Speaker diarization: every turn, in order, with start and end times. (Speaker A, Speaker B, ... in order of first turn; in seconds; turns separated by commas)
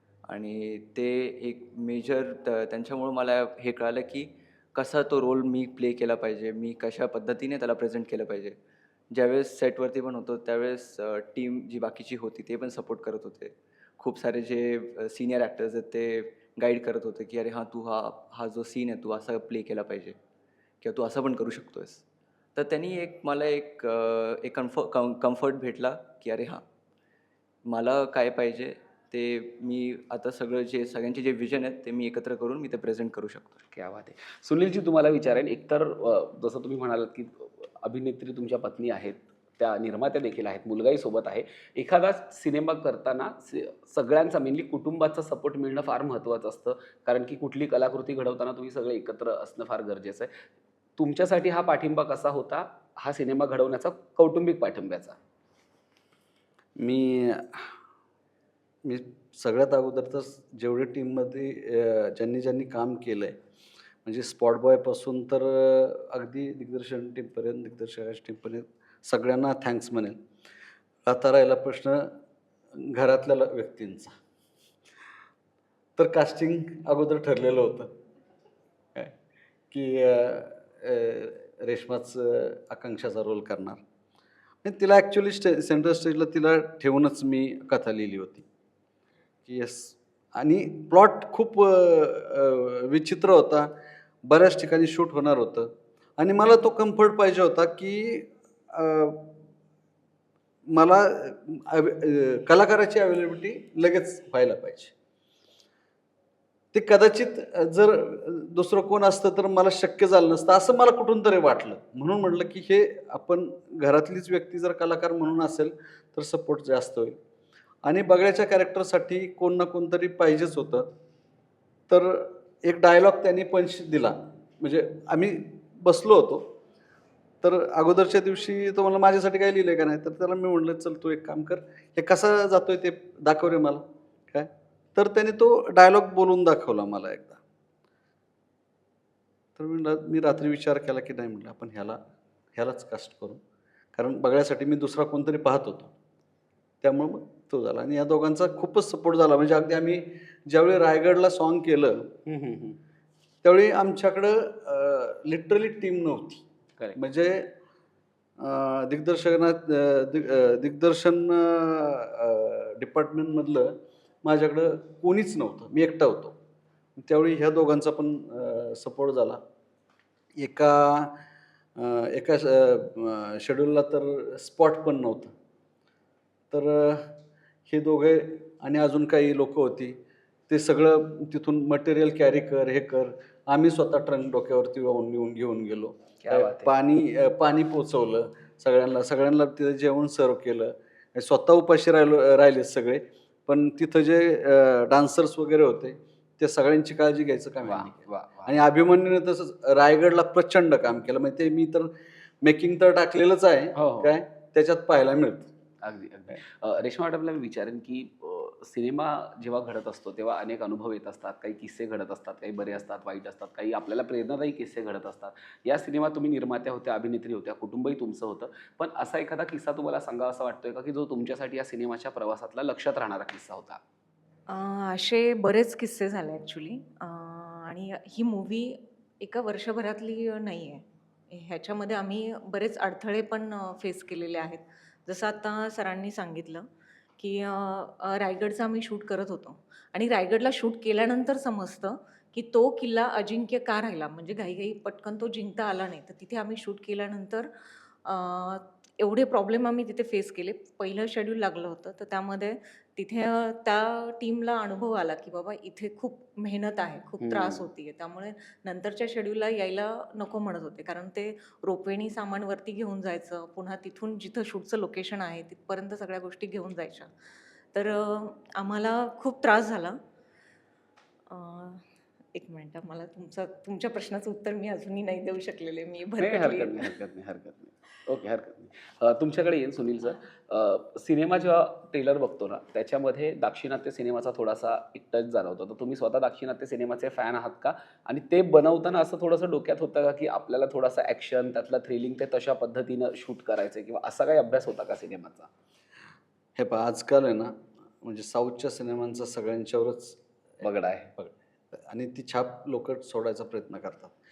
Speaker A: 0.3-8.6, Speaker A: 9.1-20.2, Speaker A: 20.8-26.6, Speaker A: 27.7-33.6, Speaker B: 33.7-50.3, Speaker B: 51.0-55.2, Speaker C: 56.8-57.7, Speaker C: 58.8-63.4, Speaker C: 64.0-70.2, Speaker C: 71.0-72.1, Speaker C: 72.7-74.1, Speaker C: 76.0-77.9, Speaker C: 79.7-83.8, Speaker C: 84.6-88.5, Speaker C: 89.5-99.4, Speaker C: 100.7-104.9, Speaker C: 106.7-117.2, Speaker C: 117.8-120.9, Speaker C: 121.9-126.5, Speaker C: 127.4-137.4, Speaker C: 139.6-142.0, Speaker C: 142.6-143.4, Speaker C: 143.9-145.9, Speaker C: 146.8-152.1, Speaker B: 152.2-152.8, Speaker C: 153.4-156.4, Speaker C: 156.9-157.5, Speaker C: 158.4-166.3, Speaker C: 167.0-169.4, Speaker C: 170.4-171.2, Speaker C: 171.8-175.3, Speaker C: 176.5-177.2, Speaker C: 177.7-205.5, Speaker B: 186.2-186.7, Speaker B: 197.6-198.5, Speaker B: 203.8-204.1, Speaker B: 205.8-223.8, Speaker D: 224.5-236.6, Speaker D: 237.2-267.1, Speaker B: 257.2-257.6, Speaker D: 267.7-269.9, Speaker D: 271.3-271.8, Speaker D: 272.3-276.9, Speaker B: 276.2-295.5, Speaker C: 296.6-300.6, Speaker B: 300.6-301.1, Speaker C: 301.1-304.1